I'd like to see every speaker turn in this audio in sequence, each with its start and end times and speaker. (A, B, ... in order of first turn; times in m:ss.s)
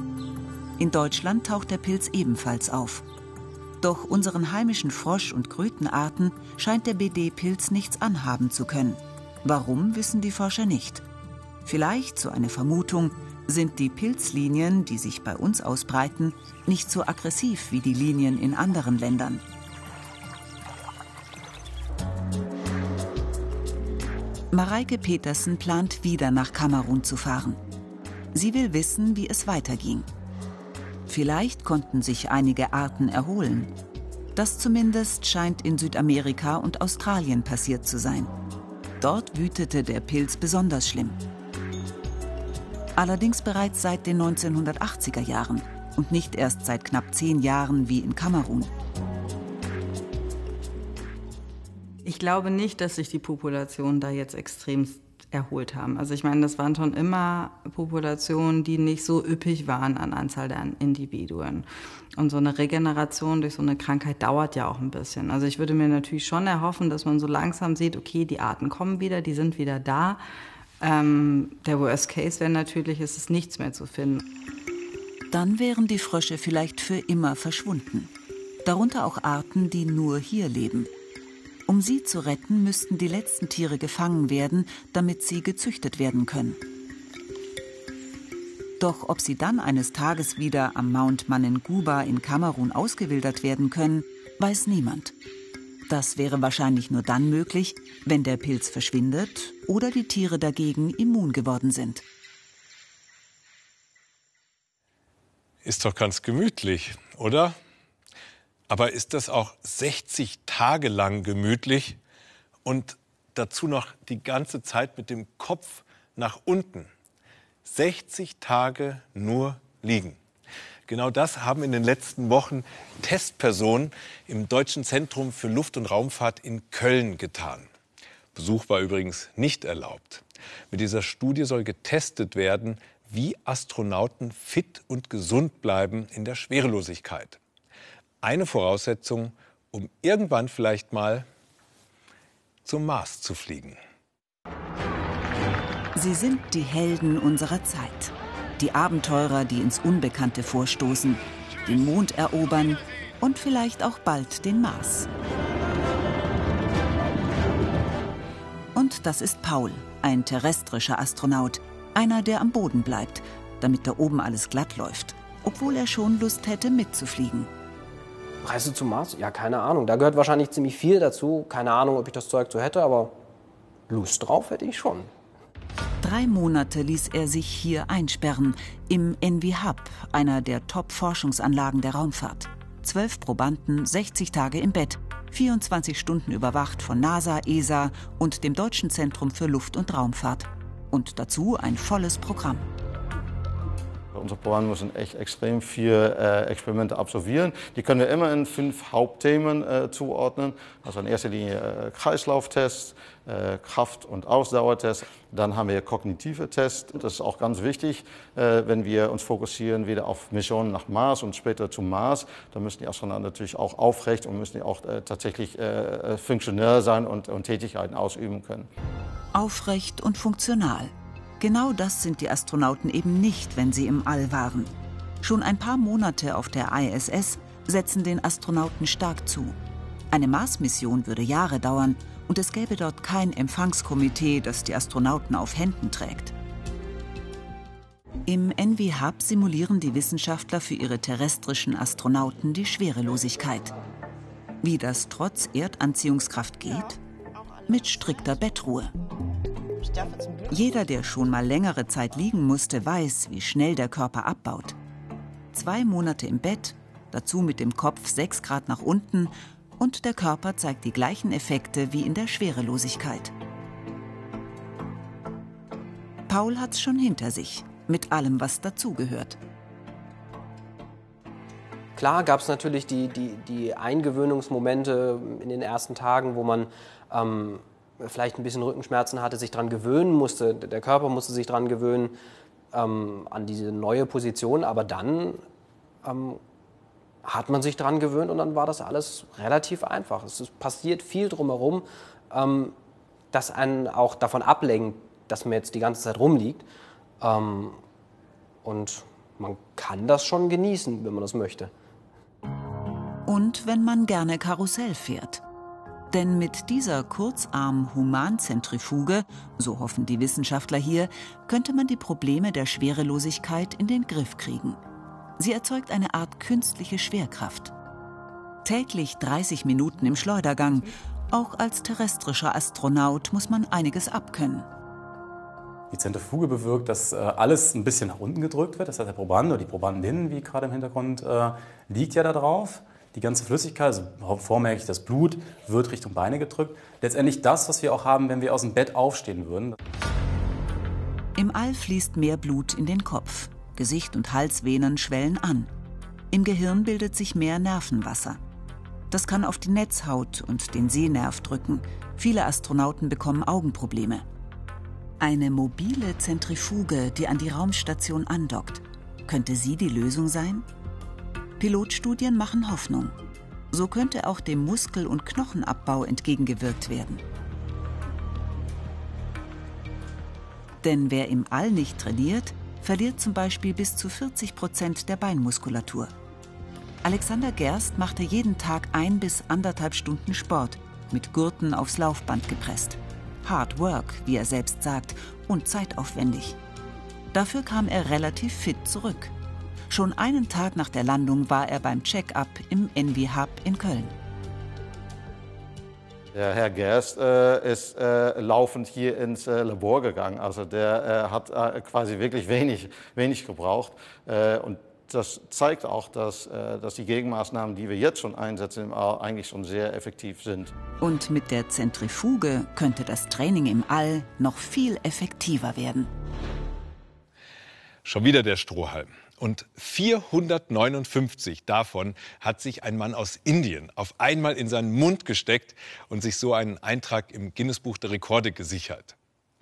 0:00.8-0:03.0 A
0:03.8-0:11.0 A
0:11.6-0:19.4 A
0:24.5-0:27.6 A
0:28.3-0:30.1 A
0:31.1-0:33.7 A
0:34.4-0:38.3 A
0:39.0-0:41.2 A
0:43.0-0:48.7 A
0:52.0-1:10.2 B
1:10.8-1:14.2 B
1:15.3-1:18.1 A
1:18.6-1:20.9 A
1:21.7-1:26.6 A
1:28.8-1:35.1 A
1:35.9-1:42.0 A
1:45.6-1:47.6 C
1:48.7-1:52.0 C
1:52.6-1:56.9 C
1:57.6-2:00.2 C
2:00.9-2:07.7 C
2:08.4-2:17.4 C
2:18.2-2:21.3 C
2:22.6-2:23.8 C
2:26.0-2:35.1 A
2:38.8-2:47.5 A
2:48.4-2:53.2 D
2:53.9-2:55.1 D
2:56.0-3:12.7 A
3:14.1-3:38.7 E
3:39.3-3:49.6 A
3:50.1-3:56.3 A
3:58.3-4:03.8 A
4:04.6-4:07.0 A
4:07.6-4:09.0 A
4:10.4-4:14.8 A
4:15.5-4:23.3 A
4:26.3-4:29.4 A
4:32.0-4:42.2 D
4:42.7-4:45.4 D
4:46.0-4:46.4 D
4:47.2-4:52.8 D
4:53.3-4:56.6 D
4:57.2-4:57.8 D
4:58.6-5:01.7 D
5:03.3-5:05.4 A
5:06.1-5:14.8 A
5:15.4-5:17.7 A
5:18.6-5:24.7 A
5:25.9-5:39.8 F
5:41.4-5:45.7 A
5:46.3-5:48.4 A
5:49.1-5:54.2 A
5:55.2-6:00.7 A
6:01.6-6:03.2 A
6:03.7-6:07.2 A
6:10.8-6:16.1 A
6:17.0-6:26.6 A
6:27.3-6:29.3 A
6:29.9-6:34.2 A
6:36.3-6:50.7 E
6:51.0-6:56.1 A
6:58.0-7:09.2 C